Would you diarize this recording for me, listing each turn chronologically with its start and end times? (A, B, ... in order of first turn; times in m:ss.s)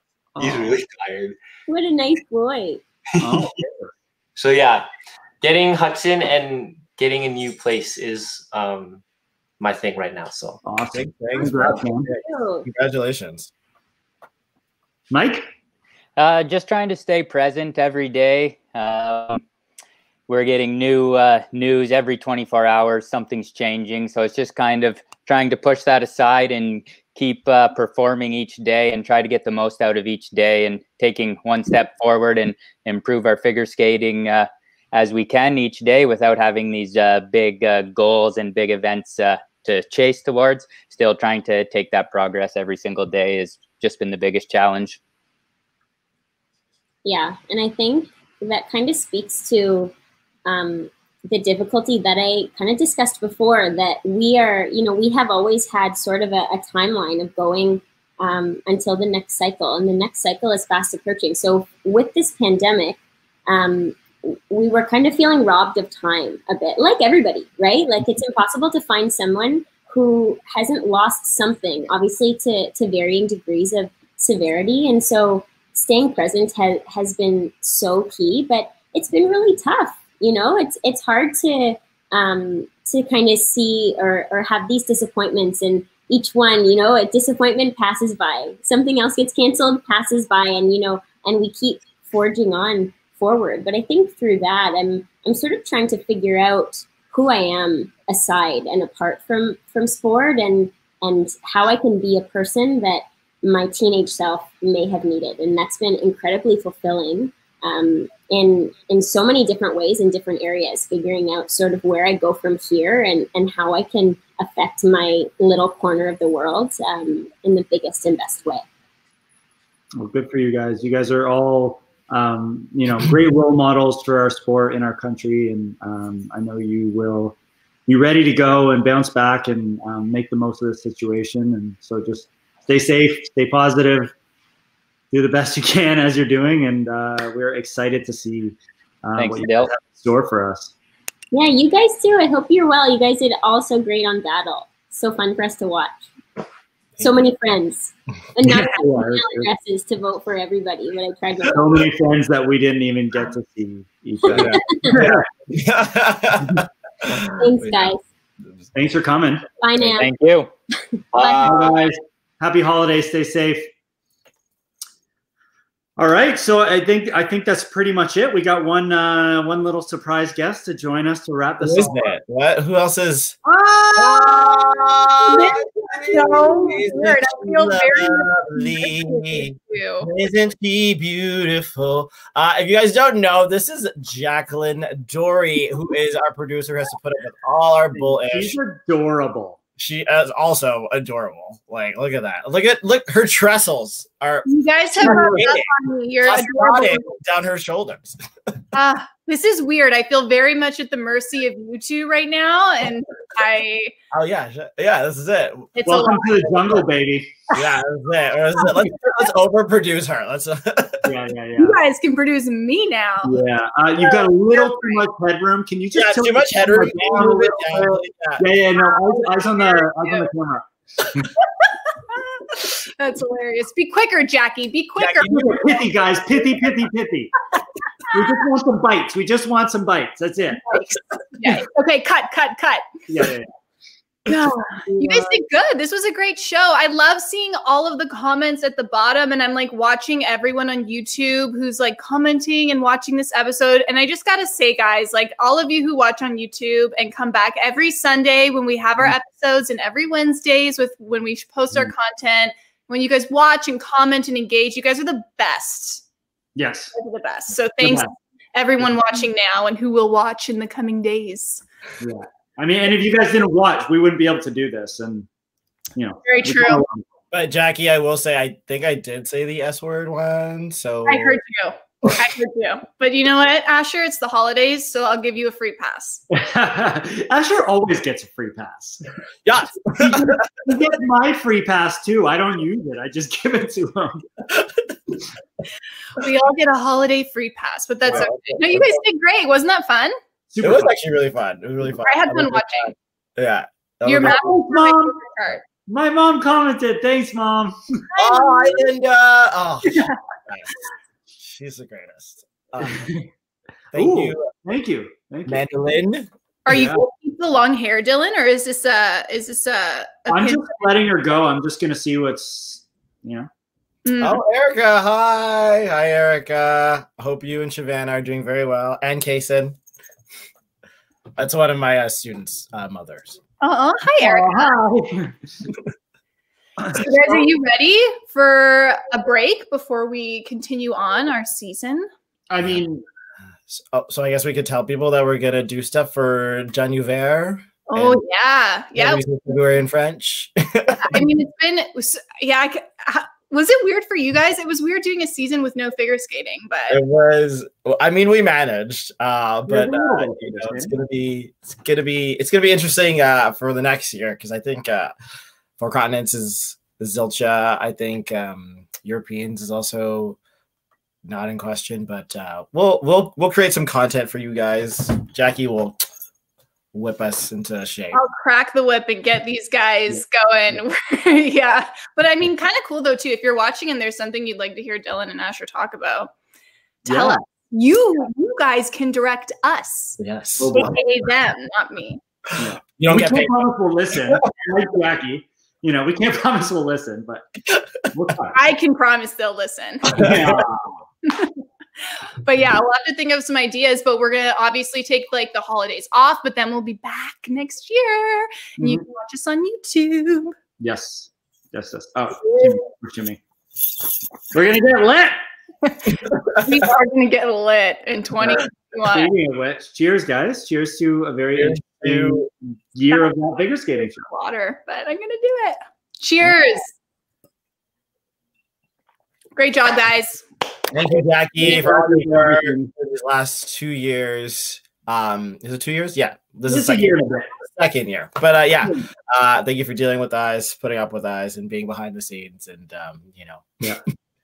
0:00.4-0:00.8 A
0:00.4-0:01.4 B
0:01.7-0:02.8 C
0:03.2-0:03.9 A
0:04.4-0:04.9 B
0:05.4-0:09.0 B
0:09.6-0:10.6 B
0:10.6-0:12.1 A
0:10.9-0:13.5 D
0:12.2-0:12.7 C
0:15.1-0:15.5 A
0:16.2-0:19.4 E
0:20.3-0:45.0 E
0:47.0-0:49.9 C
0:50.5-1:58.6 C
2:00.0-2:07.4 A
2:07.9-2:14.1 A
2:15.1-2:20.7 A
2:19.2-2:19.7 E
2:21.3-2:26.0 C
2:27.0-2:31.8 C
2:28.4-2:29.5 A
2:31.5-2:35.3 A
2:34.2-2:35.1 C
2:34.3-2:37.9 D
2:37.4-2:38.0 C
2:38.7-2:39.4 A
2:39.6-2:40.1 C
2:39.8-2:40.5 E
2:40.9-2:41.8 C
2:41.1-2:41.8 D
2:41.4-2:43.7 A
2:46.0-2:52.1 A
2:51.6-2:53.4 D
2:53.4-2:54.6 A
2:54.0-3:08.6 D
2:55.2-3:00.1 F
3:07.9-3:09.6 A
3:09.8-3:15.7 D
3:14.4-3:17.1 F
3:15.0-3:15.5 A
3:16.2-3:18.2 D
3:18.7-3:23.9 F
3:24.1-3:25.7 D
3:25.8-3:26.4 F
3:25.8-3:27.3 A
3:26.5-3:26.8 D
3:27.6-3:31.1 D
3:28.6-3:28.9 A
3:31.0-3:31.8 A
3:31.6-3:33.4 F
3:33.2-3:41.3 A
3:34.6-3:35.0 F
3:35.9-3:38.5 D
3:38.8-3:40.3 F
3:42.6-3:46.2 F
3:45.1-3:47.3 A
3:48.1-3:48.4 F
3:48.1-3:50.7 A
3:50.6-3:52.9 F
3:53.1-3:53.5 A
3:54.3-4:16.0 F
4:16.6-4:16.9 A
4:17.0-4:21.6 F
4:17.8-4:18.1 A
4:22.0-4:25.3 A
4:26.0-4:27.0 A
4:26.2-4:26.9 F
4:27.3-4:31.4 D
4:31.1-4:36.2 F
4:36.3-4:39.0 A
4:39.5-4:40.4 D
4:40.0-4:44.2 A
4:46.2-4:50.2 F
4:48.1-4:49.0 D
4:50.5-4:50.9 A
4:50.6-4:54.5 D
4:52.0-4:52.9 F
4:54.0-4:55.6 F
4:54.2-4:55.2 A
4:55.9-4:57.8 A
4:58.1-4:58.9 F
4:58.2-5:00.8 D
5:01.4-5:03.1 D
5:02.8-5:03.3 A
5:03.9-5:04.5 D
5:04.0-5:05.6 A
5:05.5-5:06.3 D
5:06.7-5:10.9 F
5:06.7-5:07.0 A
5:10.3-5:13.5 A
5:14.1-5:14.4 F
5:14.2-5:19.8 D
5:21.4-5:23.4 D
5:23.6-5:24.7 F
5:24.2-5:25.4 A
5:26.8-5:27.4 A
5:26.9-5:32.1 F
5:32.5-5:33.0 A
5:33.7-5:38.2 D
5:37.9-5:39.2 F
5:38.9-5:41.2 D
5:41.0-5:47.0 F
5:46.9-5:55.1 D
5:49.7-5:50.9 A
5:55.8-6:00.4 D
6:01.2-6:06.0 D
6:06.9-6:08.2 D
6:08.1-6:16.3 F
6:17.1-6:17.4 A
6:17.1-6:20.2 F
6:20.2-6:21.0 D
6:20.6-6:21.0 A
6:20.7-6:22.2 F
6:22.6-6:27.5 A
6:22.9-6:23.7 D
6:28.1-6:28.6 A
6:28.5-6:30.2 F
6:30.1-6:31.0 A
6:30.2-6:30.6 D
6:31.2-6:31.6 F
6:32.4-6:40.6 F
6:38.8-6:39.0 A
6:40.8-6:43.4 A
6:42.4-6:42.8 F
6:44.5-6:46.2 A
6:46.6-6:49.3 F
6:49.1-6:54.2 A
6:51.6-6:52.5 D
6:54.0-6:56.9 F
6:59.6-7:00.4 F
7:00.9-7:13.8 D
7:01.6-7:02.9 A
7:06.7-7:07.5 A